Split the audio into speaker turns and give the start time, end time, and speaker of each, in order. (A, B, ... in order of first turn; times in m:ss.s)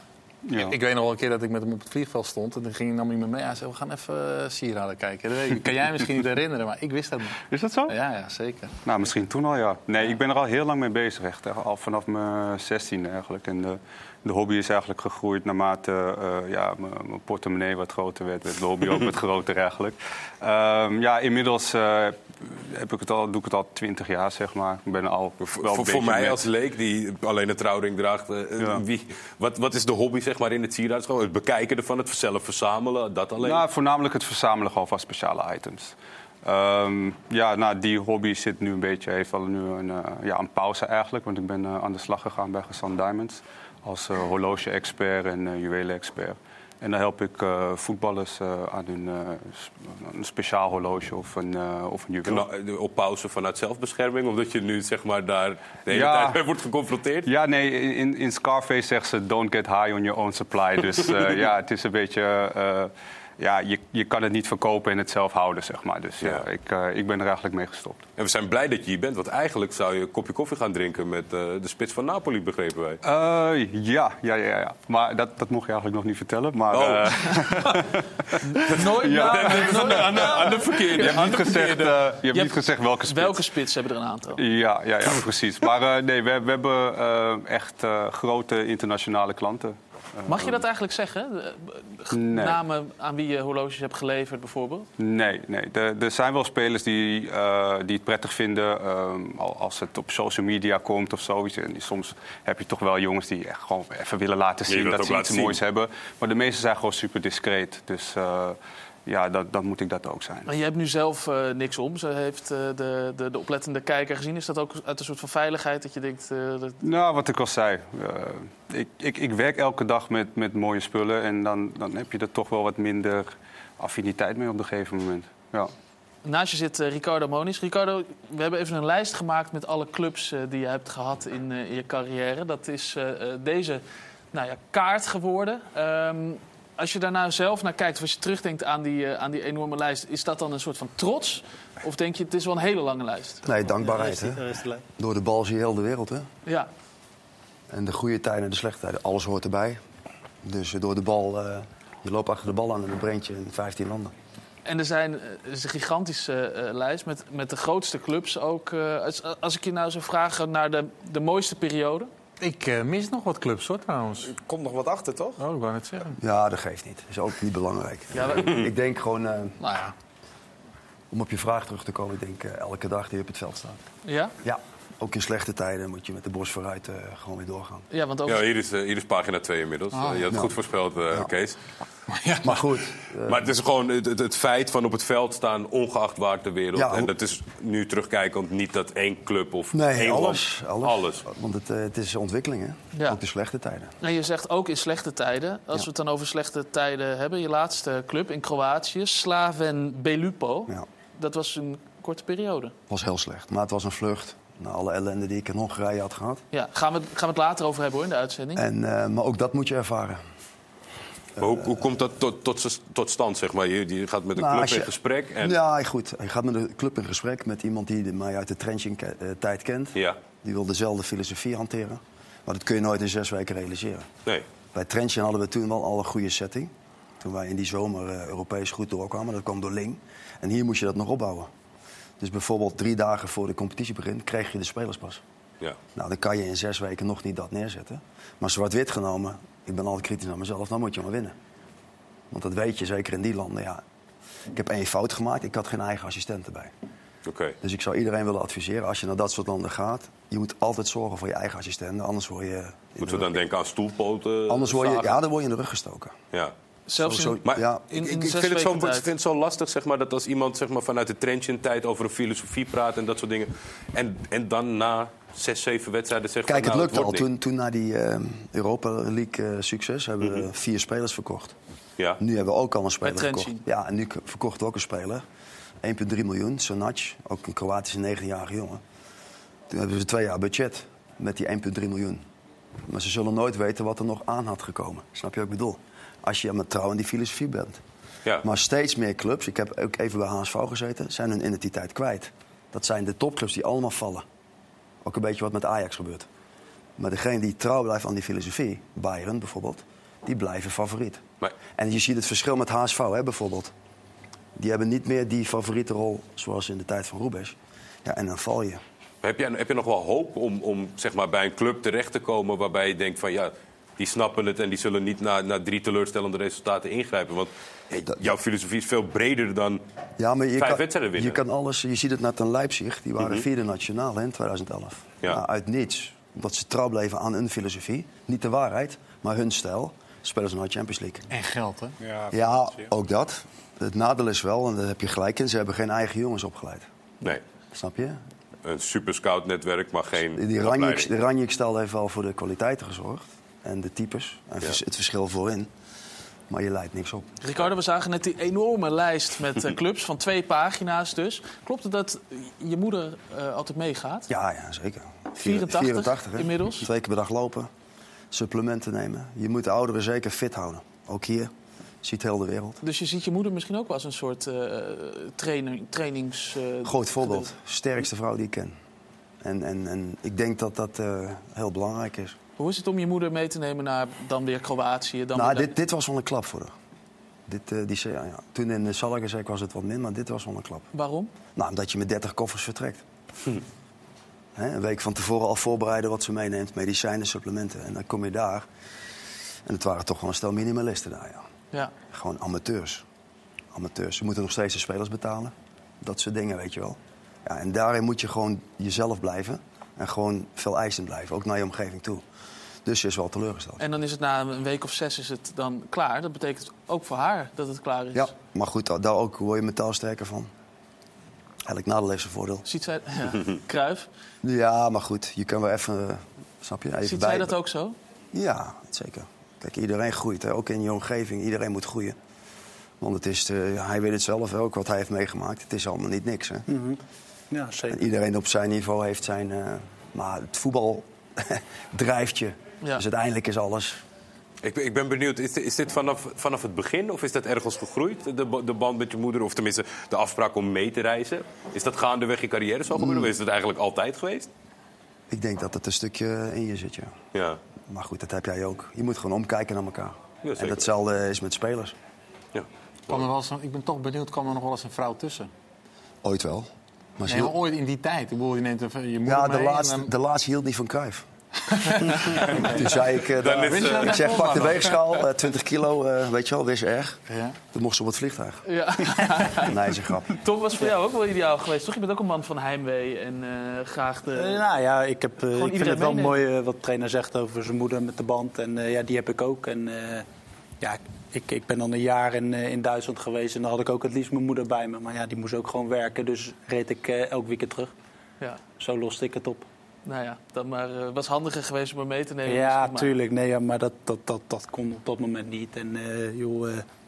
0:00.4-0:00.8 A
0:00.5-0:08.8 B
0:07.5-0:07.9 A
0:08.8-0:26.4 A
0:25.4-0:33.6 C
0:33.4-0:52.4 A
0:52.2-0:57.3 C
0:55.9-0:56.4 A
0:57.2-1:08.0 A
1:08.2-1:13.0 C
1:13.0-1:23.5 A
1:16.7-1:17.4 C
1:18.5-1:24.4 D
1:18.7-1:21.9 C
1:24.4-1:30.6 A
1:30.2-1:34.9 D
1:32.1-1:32.6 A
1:35.0-1:50.5 A
1:44.7-1:45.6 C
1:50.5-1:56.8 D
1:56.8-2:05.7 A
2:06.2-2:23.5 D
2:23.4-2:24.4 E
2:23.8-2:24.8 F
2:25.0-2:26.3 E
2:27.7-2:29.8 E
2:30.4-2:34.1 E
2:34.6-2:42.1 D
2:42.4-2:44.3 B
2:44.3-2:45.4 G
2:45.4-2:46.2 B
2:46.2-2:49.6 E
2:48.1-2:48.5 D
2:49.6-2:49.9 B
2:51.1-2:53.8 E
2:54.1-2:54.3 D
2:54.4-2:57.9 E
2:57.9-2:58.4 D
2:58.2-3:01.6 C
2:59.9-3:00.2 B
3:00.3-3:00.5 E
3:02.1-3:02.8 B
3:02.4-3:03.5 E
3:03.3-3:11.2 C
3:06.7-3:07.1 E
3:09.7-3:13.9 E
3:14.0-3:22.8 D
3:22.9-3:26.4 E
3:26.5-3:28.6 D
3:28.6-3:30.2 E
3:31.4-3:35.6 C
3:31.4-3:31.8 E
3:34.4-3:44.1 E
3:44.7-3:51.5 E
3:52.2-3:55.2 E
3:56.0-4:01.4 E
4:02.3-4:03.8 E
4:04.5-4:06.7 E
4:07.2-4:07.6 C
4:07.6-4:13.3 E
4:13.0-4:15.2 C
4:14.5-4:16.2 E
4:16.9-4:17.4 D
4:17.0-4:17.8 E
4:17.5-4:27.2 C
4:17.9-4:19.1 D
4:26.5-4:31.6 E
4:32.2-4:35.2 E
4:33.0-4:33.6 D
4:35.8-4:38.8 E
4:39.7-4:42.2 E
4:42.9-4:47.8 E
4:48.4-4:54.2 E
4:55.0-4:56.3 E
4:57.0-5:01.2 E
5:01.8-5:03.7 E
5:04.6-5:08.8 E
5:09.2-5:19.8 C
5:20.2-5:31.2 E
5:20.6-5:21.4 C
5:31.3-5:32.0 B
5:32.0-5:32.9 G
5:32.3-5:36.9 E
5:37.7-5:38.2 E
5:38.6-5:41.1 C
5:40.3-5:45.7 E
5:46.5-5:47.3 E
5:47.4-5:54.3 D
5:54.3-5:57.7 E
5:55.4-5:56.9 D
5:58.3-6:01.5 E
6:02.0-6:02.8 E
6:02.8-6:07.5 D
6:06.8-6:08.8 E
6:09.4-6:12.4 E
6:12.6-6:15.7 D
6:15.4-6:16.7 E
6:17.5-6:20.9 E
6:20.9-6:21.3 D
6:21.6-6:23.0 E
6:24.6-6:28.7 E
6:29.6-6:31.5 E
6:32.1-6:33.0 E
6:33.7-6:42.2 E
6:42.8-6:43.8 E
6:43.8-6:48.3 D
6:48.1-6:50.5 E
6:51.6-6:52.6 E
6:52.7-6:54.1 D
6:54.4-6:57.5 E
6:57.0-6:58.0 D
6:58.3-7:02.2 E
7:03.0-7:06.7 E
7:06.7-7:07.0 F
7:07.5-7:08.0 F
7:07.9-7:14.0 E
7:14.6-7:24.5 C
7:22.9-7:23.3 E
7:25.3-7:27.2 E
7:27.3-7:27.6 C
7:27.9-7:32.0 E
7:30.4-7:30.8 C
7:32.5-7:33.2 C
7:33.1-7:35.5 B
7:36.2-7:37.5 E
7:37.2-7:40.1 B
7:39.2-7:41.3 E
7:41.7-7:42.7 B
7:42.6-7:47.2 E
7:43.4-7:44.7 C
7:43.7-7:44.9 B
7:47.3-7:47.6 B
7:47.7-7:48.6 E
7:48.7-7:49.8 D
7:49.6-7:50.3 E
7:50.3-7:54.6 D
7:54.3-8:00.2 F
7:55.5-7:56.4 D
8:00.8-8:07.9 F
8:08.8-8:09.6 F
8:10.0-8:13.1 D
8:12.5-8:16.8 F